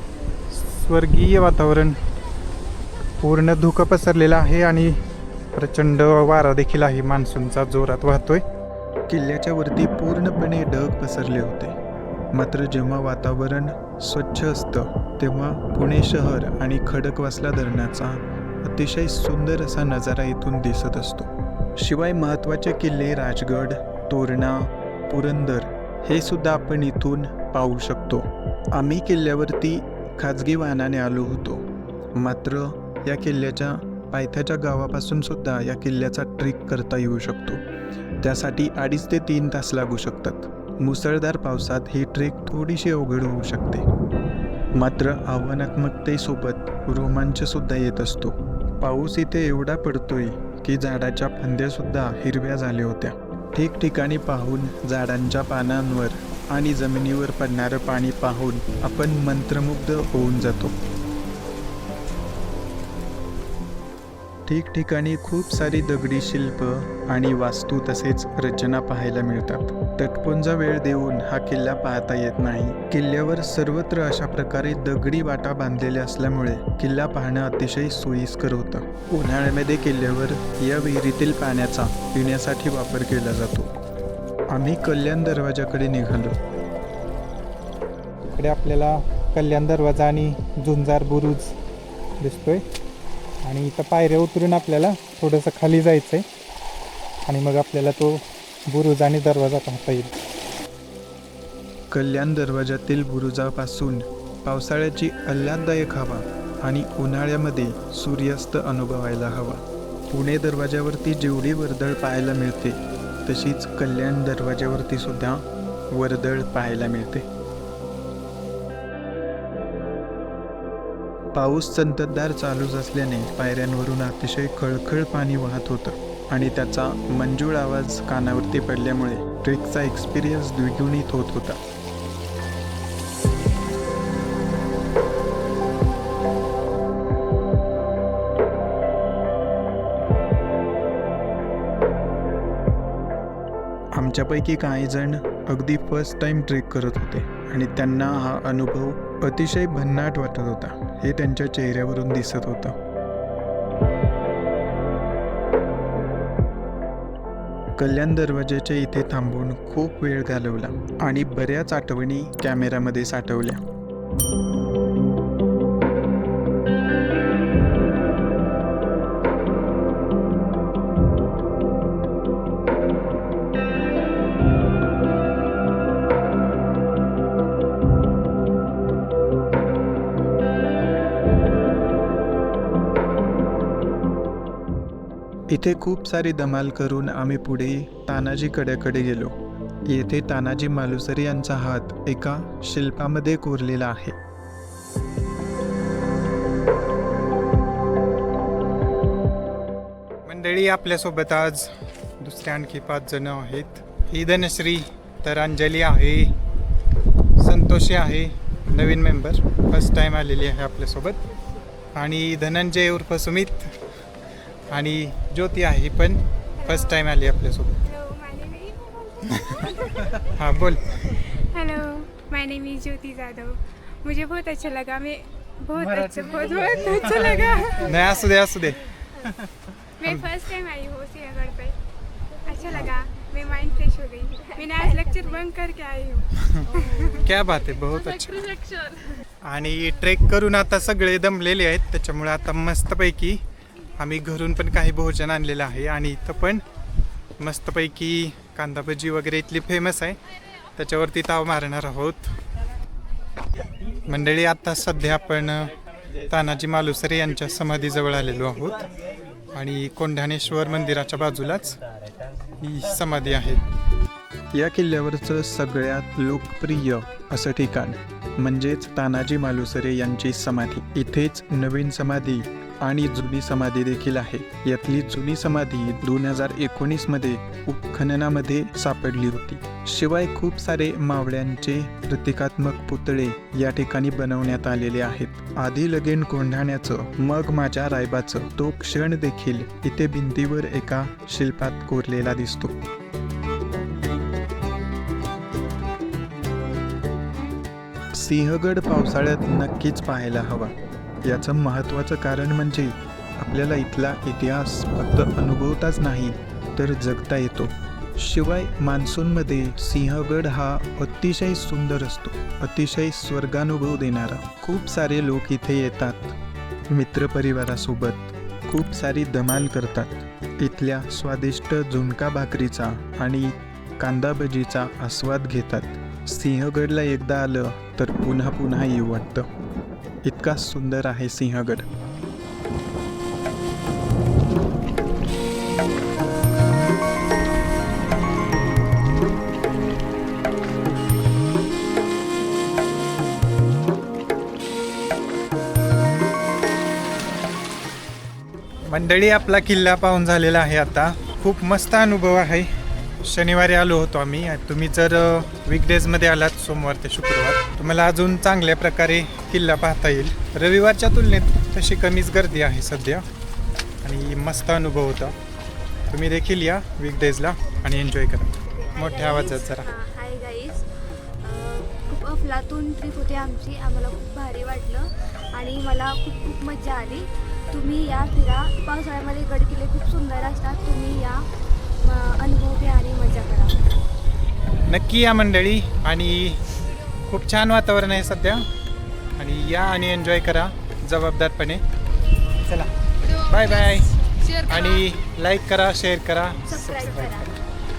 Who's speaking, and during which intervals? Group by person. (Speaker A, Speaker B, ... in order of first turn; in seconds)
Speaker A: 0.5-2.0, 3.2-5.0, 5.5-8.4, 88.3-91.5, 92.2-92.6, 93.4-96.2, 97.2-100.1, 200.2-206.3, 207.4-211.2, 211.9-213.8, 214.7-217.8, 220.3-221.3, 225.9-226.6, 227.8-229.3, 230.0-230.4, 236.4-238.7, 239.4-243.4, 244.0-246.6, 247.4-250.2, 250.8-252.4, 254.1-255.7, 256.3-258.9, 259.5-261.8, 262.6-263.6, 348.8-352.7, 353.2-363.2, 364.0-365.4, 366.1-369.9, 384.9-386.6, 387.3-388.7, 389.4-391.8, 392.6-397.5
Speaker B: 9.1-11.8, 12.3-37.6, 38.2-43.8, 44.7-60.8, 64.5-83.7, 84.5-86.4, 101.9-117.3, 121.3-131.6, 143.9-152.8, 157.8-163.6, 185.5-189.3, 189.9-194.2, 264.5-292.8, 298.1-316.4, 316.9-329.5, 330.2-331.9
Speaker C: 216.6-217.0, 217.8-220.2, 221.1-227.9, 230.0-231.8, 232.4-237.2, 238.8-239.1
Speaker D: 368.9-383.9, 396.7-397.5